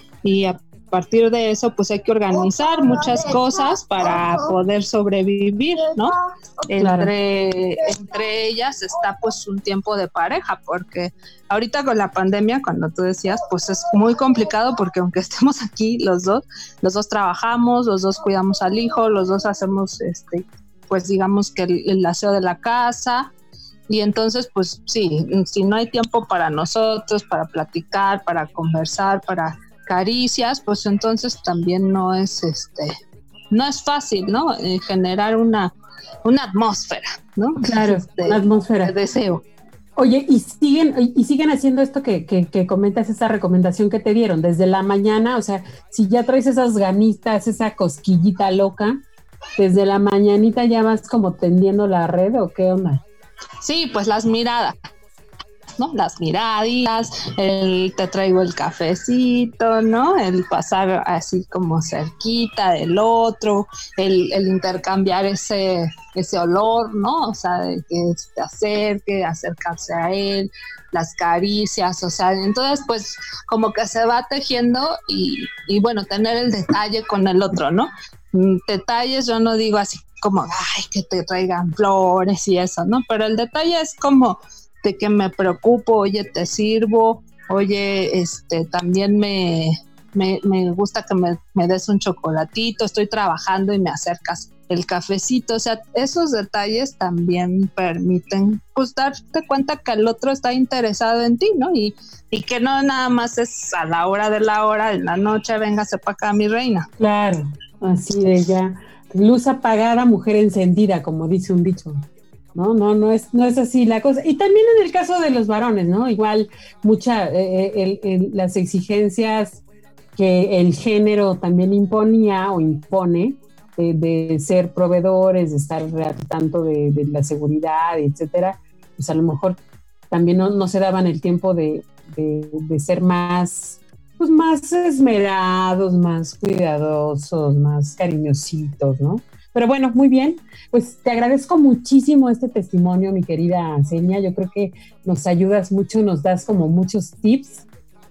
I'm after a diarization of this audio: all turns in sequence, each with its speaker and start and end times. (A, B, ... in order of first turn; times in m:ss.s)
0:00.2-0:06.1 A
0:06.7-0:23.3 A
0:06.8-0:07.1 B
0:23.9-0:32.9 A
0:33.5-0:39.4 A
0:37.6-0:38.9 B
0:40.0-0:49.0 B
0:49.6-0:53.0 B
0:53.6-0:54.7 A
0:55.8-1:46.9 A
1:47.0-1:59.6 B
2:00.2-2:27.6 B